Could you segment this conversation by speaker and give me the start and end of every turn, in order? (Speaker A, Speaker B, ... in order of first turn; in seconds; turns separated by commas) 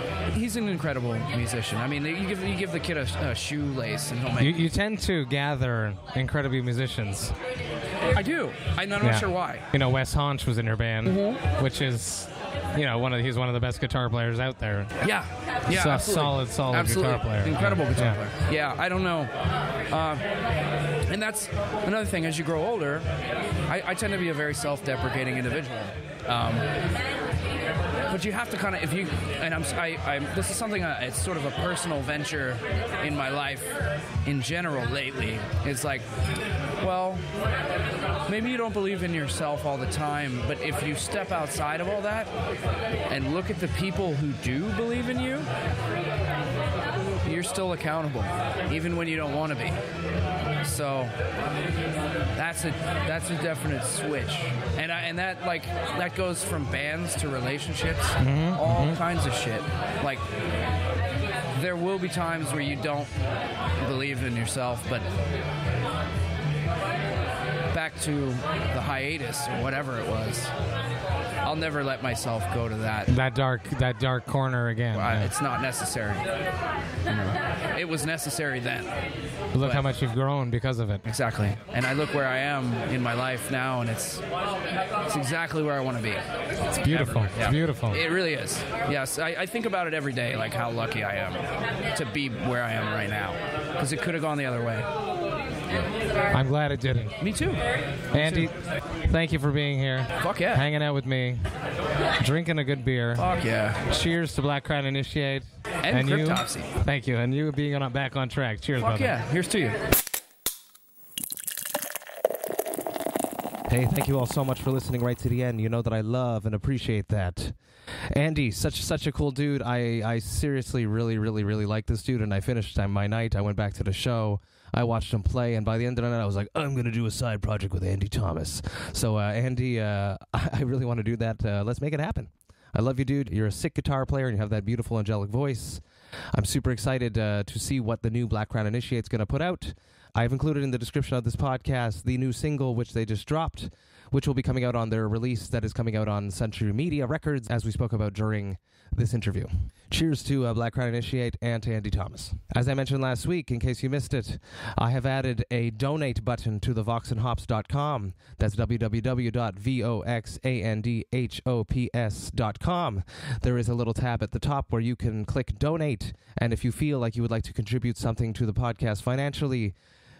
Speaker A: 0.3-4.6, Speaker B: 4.4-7.3, Speaker A: 8.1-9.6, Speaker B: 9.0-14.9, Speaker A: 11.0-11.4, Speaker A: 15.0-19.3, Speaker B: 15.7-18.2, Speaker A: 19.9-20.2, Speaker A: 21.1-23.0, Speaker A: 23.7-26.7, Speaker A: 28.1-36.0, Speaker A: 36.8-37.2, Speaker A: 38.3-42.3, Speaker A: 43.1-45.5, Speaker A: 47.2-49.8, Speaker A: 50.6-51.1, Speaker A: 52.4-60.2, Speaker B: 58.2-59.0, Speaker A: 61.5-63.1, Speaker A: 63.8-65.1, Speaker A: 67.7-70.5, Speaker A: 71.4-73.1, Speaker B: 73.1-75.3, Speaker A: 74.9-76.3, Speaker A: 77.1-78.9, Speaker B: 79.5-81.0, Speaker A: 79.6-79.9, Speaker A: 81.0-84.2, Speaker A: 85.1-94.9, Speaker B: 86.8-88.0, Speaker B: 96.3-97.2, Speaker A: 97.2-98.5, Speaker B: 98.1-101.4, Speaker A: 100.2-100.6, Speaker B: 102.2-103.2, Speaker A: 103.2-103.8, Speaker B: 103.9-109.1, Speaker A: 105.8-106.7, Speaker A: 108.8-109.8, Speaker C: 113.7-117.5, Speaker C: 118.1-135.8, Speaker C: 136.3-169.7